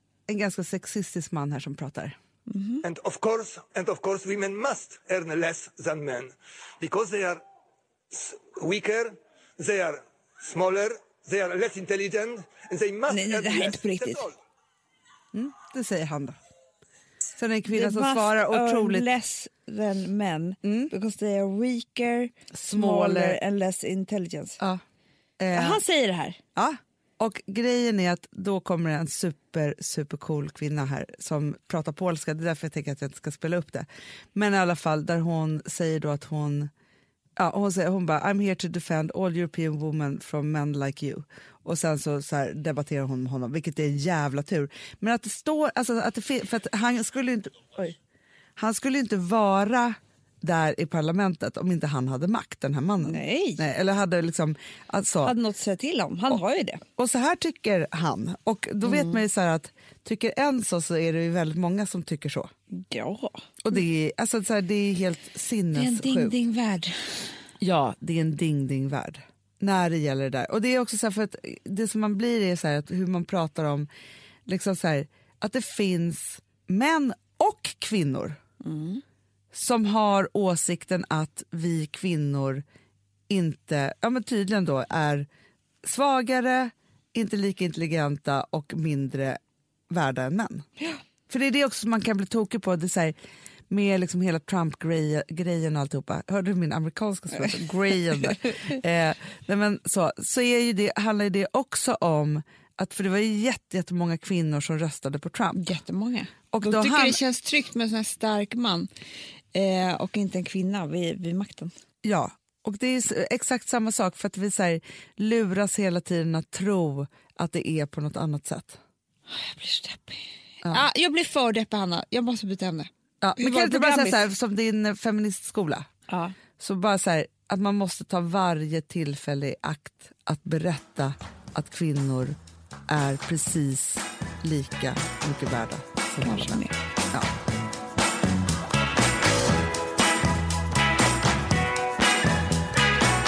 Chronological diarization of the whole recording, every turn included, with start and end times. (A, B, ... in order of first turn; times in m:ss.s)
0:00.3-0:02.1 A
0:02.5-0:02.8 B
0:02.8-0:07.4 C
0:08.1-0:14.4 C
0:13.1-0:14.3 B
0:15.3-0:16.4 A
0:17.4-0:19.1 A
0:17.7-0:24.6 B
0:20.6-0:20.9 A
0:22.5-0:23.4 A
0:25.4-0:25.8 A
0:25.5-0:26.4 B
0:26.5-0:36.7 A
0:37.4-0:48.0 A
0:48.6-0:55.3 A
0:53.0-0:53.6 B
0:55.2-0:56.8 B
0:57.0-1:02.5 A
0:58.8-0:59.2 B
1:02.7-1:03.8 B
1:03.6-1:06.4 A
1:05.7-1:07.4 B
1:07.6-1:13.9 A
1:14.5-1:18.4 A
1:18.6-1:19.0 B
1:19.5-1:22.6 A
1:23.3-1:25.3 A
1:25.8-1:30.6 A
1:31.3-1:33.2 A
1:33.7-1:45.7 A
1:37.3-1:38.8 B
1:45.6-1:48.9 B
1:46.5-1:47.2 A
1:49.5-1:51.7 B
1:52.0-1:58.8 A
1:59.3-2:04.2 B
2:03.2-2:05.9 A
2:06.1-2:06.4 B
2:06.6-2:12.4 A
2:12.9-2:17.3 A
2:16.2-2:16.8 B